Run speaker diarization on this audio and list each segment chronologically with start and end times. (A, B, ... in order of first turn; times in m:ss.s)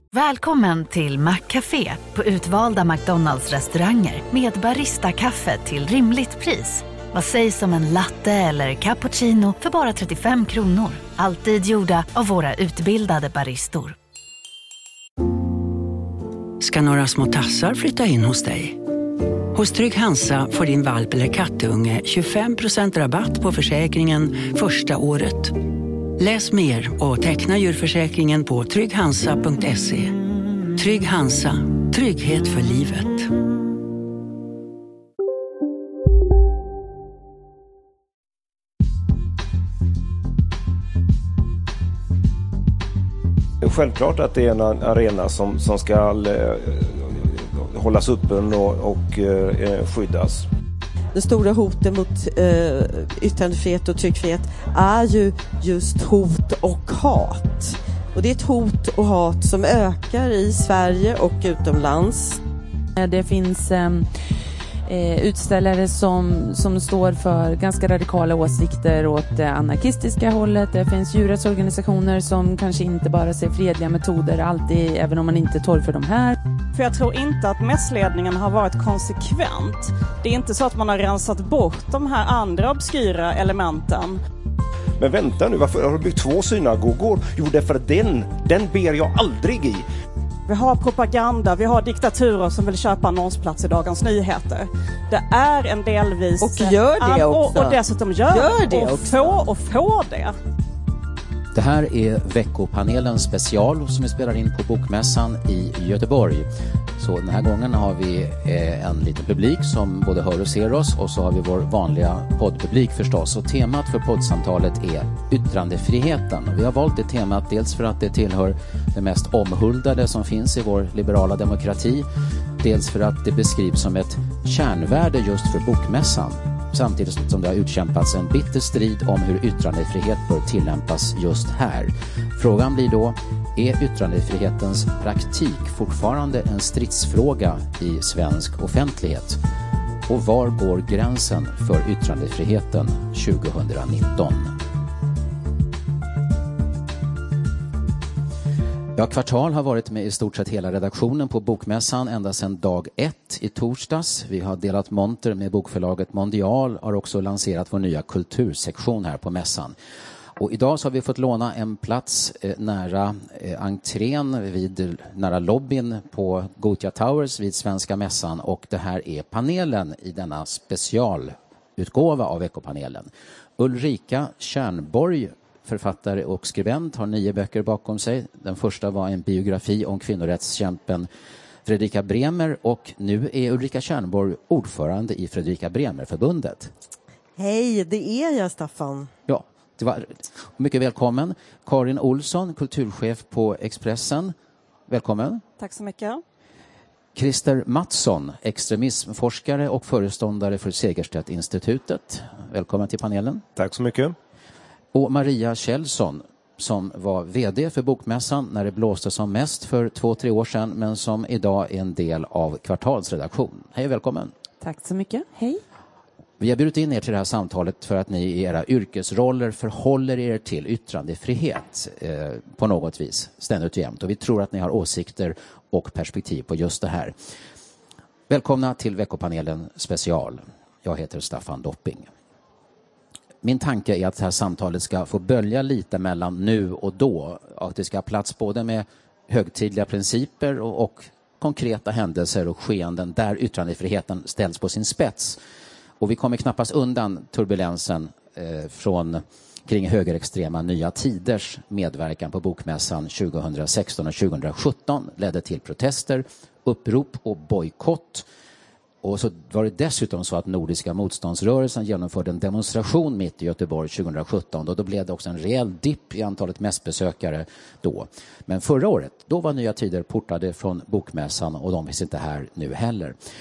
0:00.1-0:14.0 A
0:16.6-0:18.8 B
0:19.5-0:25.6 B
0:26.2-0:30.1 B
0:30.8-0:33.3 B
0:43.6-0:50.5 C
0:51.1-1:02.4 D
1:03.0-1:04.1 E
1:04.9-1:16.4 E
1:16.8-1:24.2 F
1:25.0-1:29.8 C
1:30.5-1:40.3 F
1:36.4-1:37.8 D
1:38.3-1:39.4 D
1:41.5-2:02.0 G
2:02.6-2:19.4 G
2:20.1-2:24.5 G
2:28.9-2:39.8 G
2:40.4-3:01.1 G
3:01.6-3:06.7 G
3:07.4-3:09.1 D
3:09.3-3:14.4 G
3:14.9-3:15.4 G
3:15.6-3:16.2 F
3:17.2-3:23.4 G
3:23.6-3:24.1 C
3:24.9-3:34.3 G
3:34.6-3:35.6 E
3:36.4-3:47.1 G
3:48.3-3:52.1 G
3:53.4-4:05.4 G
4:06.0-4:18.3 G
4:19.0-4:33.2 G